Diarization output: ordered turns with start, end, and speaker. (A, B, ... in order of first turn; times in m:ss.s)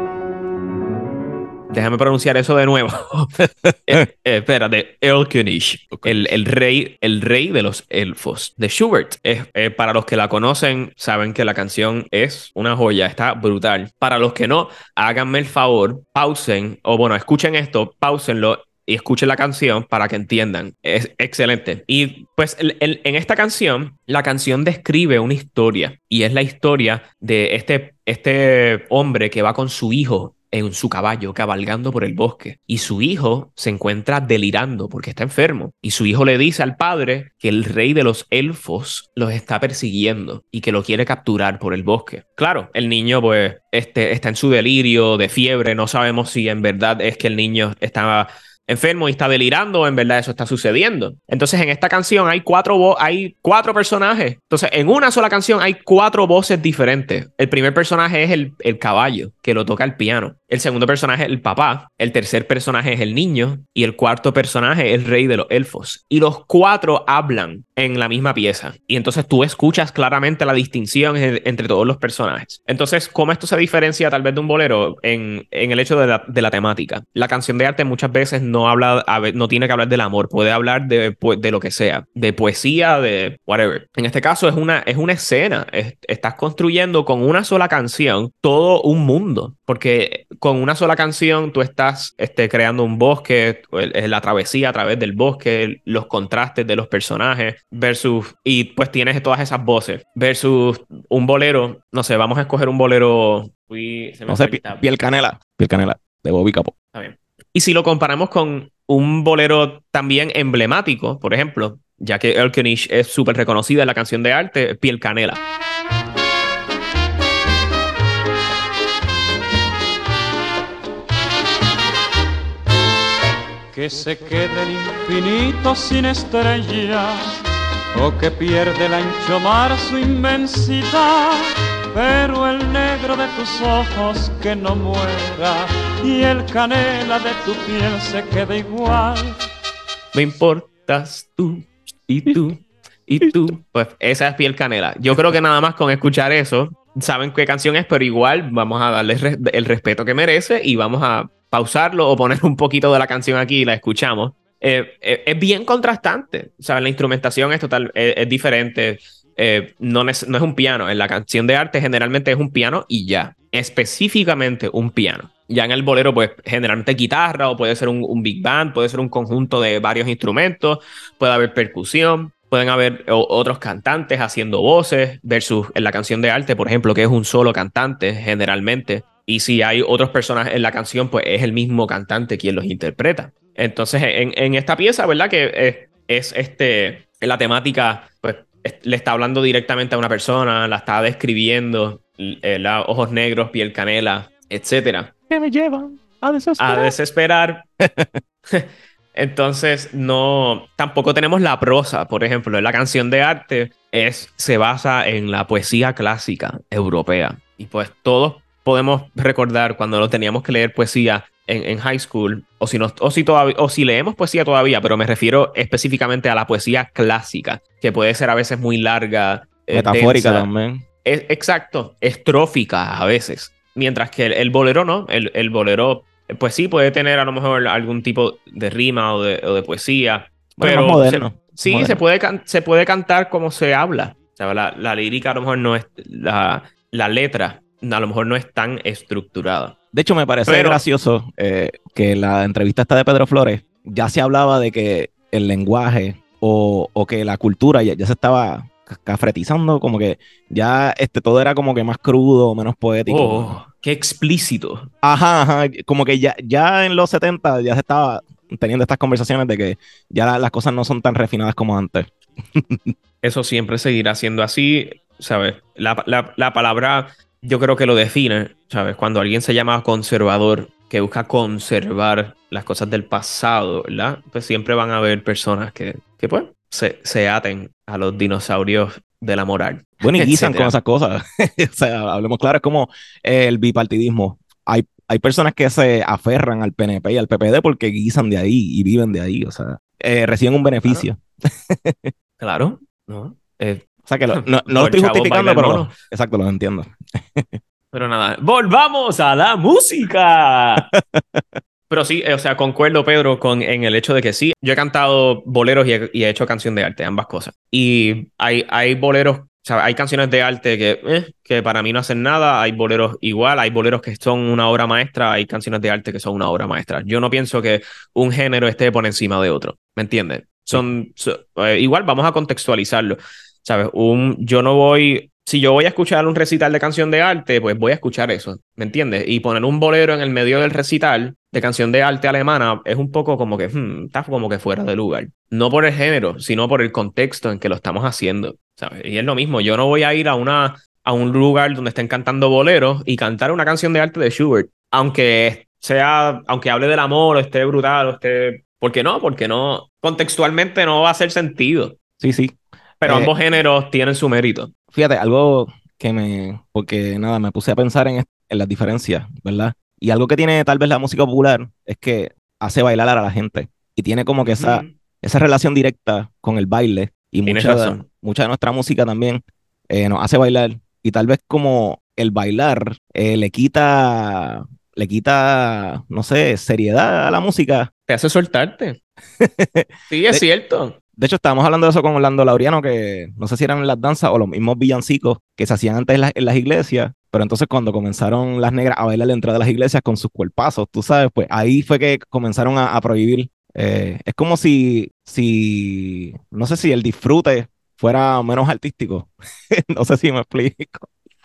0:01.7-1:44.9 A
0:03.6-0:03.9 B
0:05.9-0:06.3 B
1:44.3-1:46.7 B
1:46.9-1:55.4 A
2:03.7-2:07.4 C
2:07.9-2:19.4 C
2:20.1-3:15.1 A
3:15.3-3:17.0 B
3:16.6-3:17.6 A
3:17.8-3:18.2 B
3:18.5-3:40.5 A
3:39.7-3:40.8 B
3:41.0-3:59.8 A
3:50.6-3:52.0 B
3:59.9-4:13.6 B
4:00.5-4:00.8 A
4:13.1-4:14.9 A
4:15.0-4:22.9 B
4:23.2-4:40.7 A
4:40.0-4:52.1 B
4:52.4-4:56.0 A
4:54.0-4:57.6 B
4:57.9-5:00.9 A
5:00.8-5:01.6 B
5:01.9-5:52.0 A
5:52.2-5:53.3 B
5:53.0-5:54.7 A
5:54.9-6:17.9 B
6:04.4-6:04.9 A
6:07.5-6:08.0 A
6:18.1-6:19.0 A
6:19.4-6:20.4 B
6:20.1-6:21.0 A
6:21.2-6:41.1 B